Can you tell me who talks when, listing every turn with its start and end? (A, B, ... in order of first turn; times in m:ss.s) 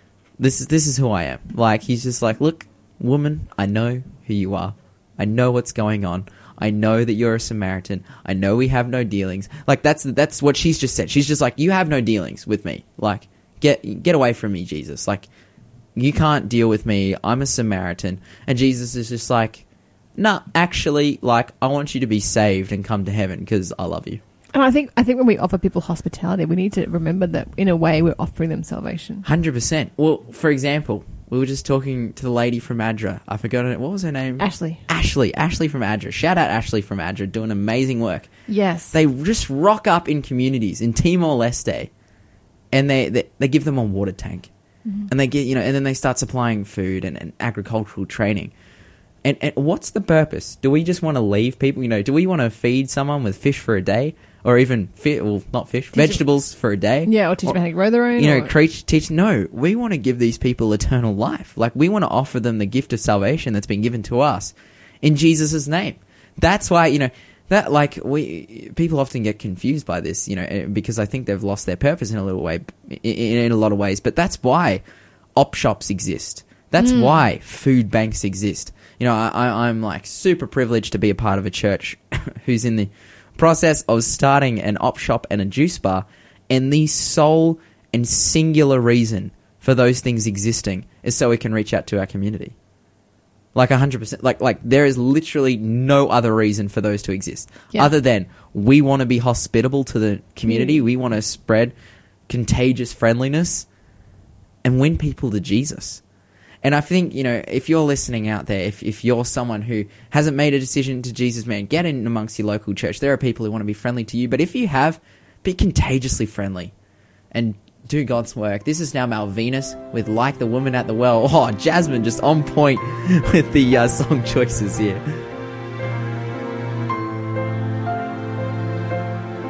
0:00.4-0:15.3 A
0:16.0-0:19.6 A
0:20.2-0:24.2 A
0:24.5-0:29.3 B
0:29.2-0:38.3 A
0:34.4-0:34.8 B
0:38.5-0:39.0 B
0:38.9-0:41.9 A
0:42.7-0:44.5 A
0:45.1-0:48.5 A
0:49.2-0:57.6 A
0:57.1-0:58.5 B
0:58.2-1:14.8 A
1:15.4-1:32.6 A
1:16.8-1:17.2 B
1:33.6-1:41.8 A
1:40.5-1:40.8 B
1:42.3-1:43.7 A
1:44.6-1:46.0 A
1:46.6-1:56.7 A
1:57.3-2:05.0 A